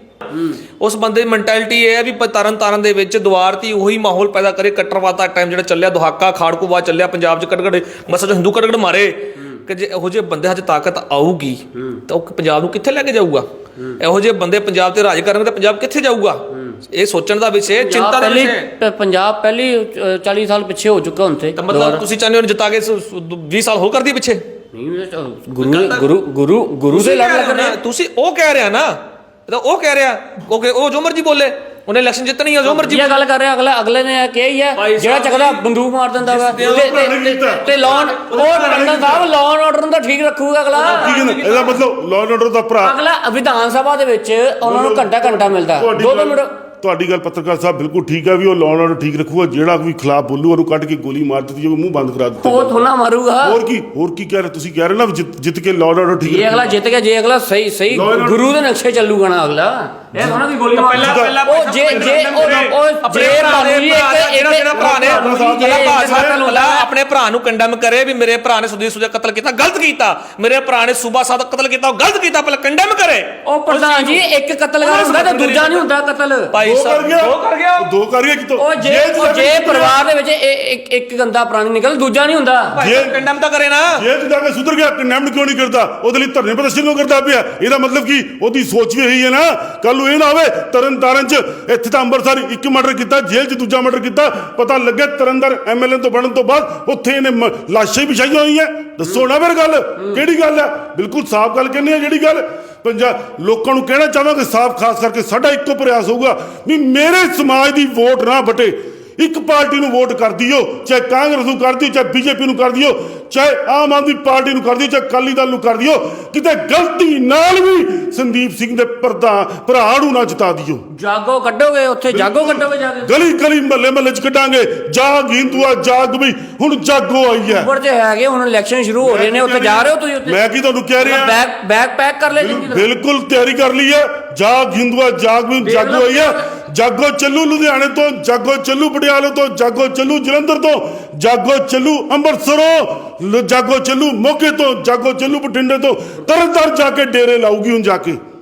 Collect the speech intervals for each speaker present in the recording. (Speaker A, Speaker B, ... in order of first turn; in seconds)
Speaker A: 0.8-18.7, 21.6-24.4, 25.6-26.1, 26.9-33.2, 34.7-35.7, 36.2-39.3, 40.7-41.8, 60.7-74.2, 74.8-75.9, 76.5-77.9, 82.7-84.0
Speaker B: 17.7-22.1, 24.7-27.8, 32.6-41.1, 42.8-46.5, 52.4-53.6, 56.2-66.9, 73.4-76.6, 78.6-82.8, 120.9-123.3, 127.4-130.4, 131.0-132.9, 135.6-136.5
Speaker C: 36.5-39.2, 40.8-42.9, 44.6-52.7, 53.4-56.7, 57.9-58.5, 61.0-62.7, 64.7-66.4, 76.6-80.0, 82.8-83.2, 83.9-120.9, 122.1-127.7, 129.0-131.4, 132.3-148.2